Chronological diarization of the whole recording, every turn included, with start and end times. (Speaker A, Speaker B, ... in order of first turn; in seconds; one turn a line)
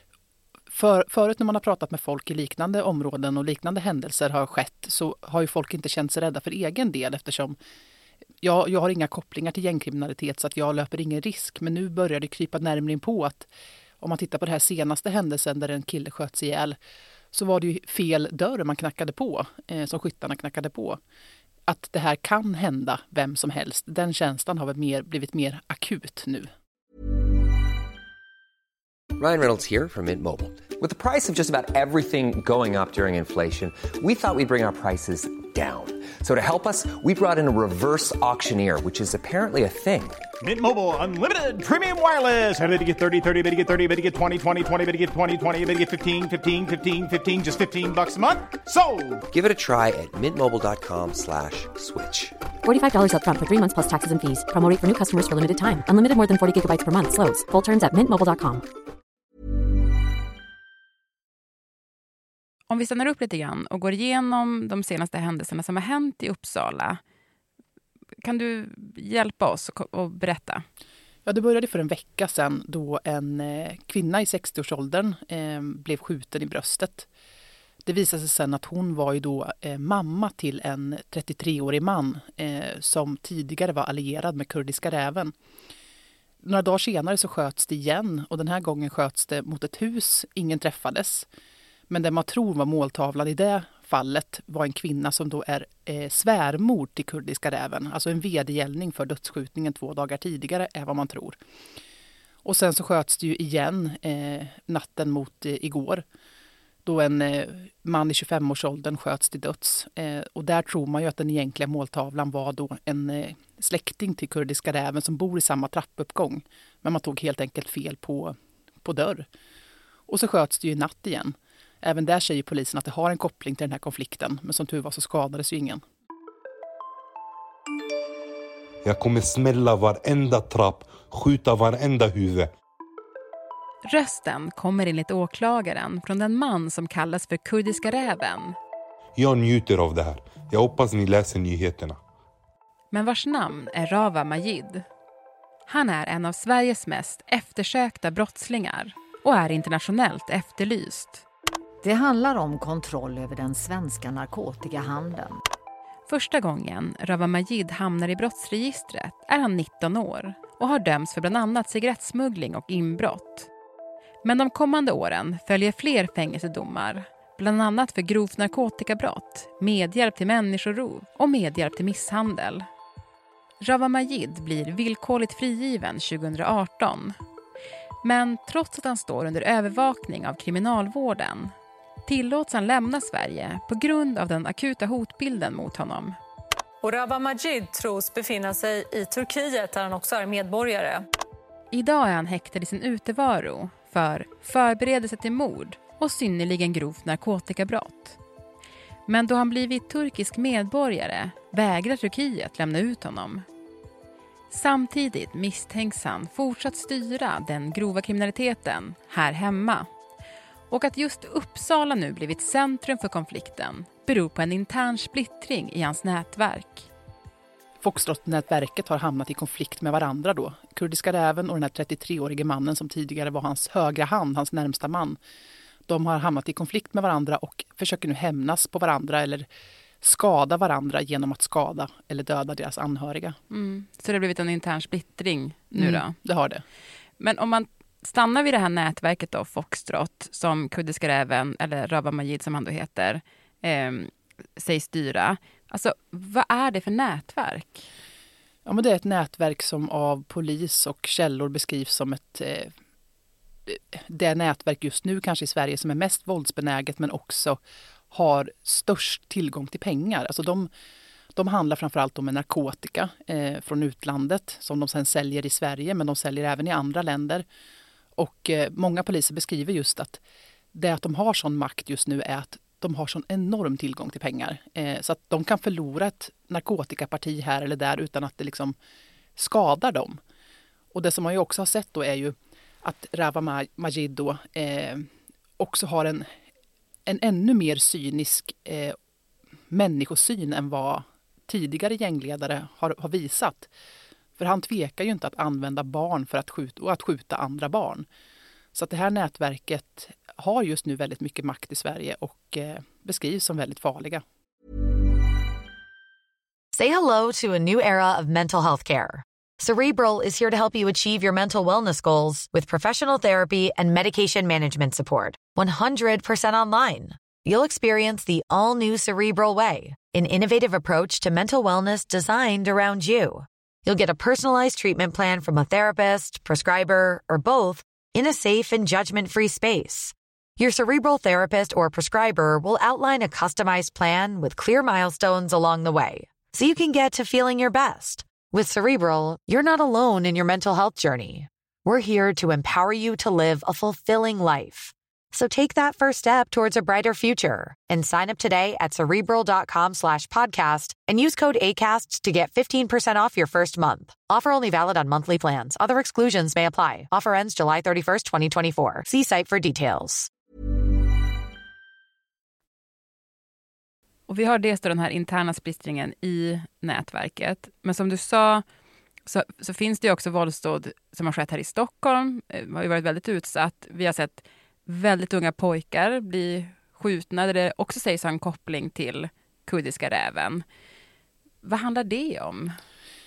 Speaker A: 0.7-7.5
Speaker A: 8.4-13.5
Speaker A: 14.0-16.8
Speaker A: 17.3-21.0
Speaker A: 21.7-26.5
Speaker B: 29.2-40.2
Speaker C: 40.4-49.2
Speaker B: 49.3-52.3
Speaker D: 52.6-58.6
Speaker E: 62.7-67.0
Speaker E: 68.2-70.6
Speaker A: 71.2-77.1
Speaker A: 77.8-85.3
Speaker A: 86.4-91.3
Speaker A: 91.9-101.4
Speaker A: 102.4-106.0
Speaker A: 106.8-119.3
Speaker A: 120.1-125.8
Speaker F: 128.8-132.5
Speaker E: 133.9-138.6
Speaker F: 139.2-142.0
Speaker E: 142.9-144.8
Speaker E: 145.7-151.2
Speaker G: 151.8-155.4
Speaker E: 156.1-163.5
Speaker E: 164.2-172.7
Speaker E: 173.6-177.1
Speaker E: 178.0-181.5
Speaker E: 182.1-186.2
Speaker H: 186.8-191.1
Speaker E: 191.7-198.2
Speaker E: 199.1-203.4
Speaker E: 204.5-209.9
Speaker E: 210.7-216.9
Speaker A: 217.8-225.2
Speaker A: 225.9-229.5
Speaker A: 230.0-233.4
Speaker E: 233.5-236.1
Speaker A: 235.7-236.6
Speaker E: 237.2-247.9
Speaker A: 248.7-252.7
Speaker A: 253.7-257.6
Speaker A: 258.1-260.7
Speaker A: 261.4-267.4
Speaker A: 268.2-270.2
Speaker A: 270.7-278.7
Speaker A: 279.4-280.2
Speaker A: 280.9-285.1
Speaker A: 285.6-286.2
Speaker A: 287.1-288.9
Speaker A: 289.7-293.7
Speaker A: 294.4-298.1
Speaker A: 298.7-304.2
Speaker I: 306.7-360.3
Speaker E: 364.3-368.6
Speaker E: 369.2-380.6
Speaker E: 381.6-382.7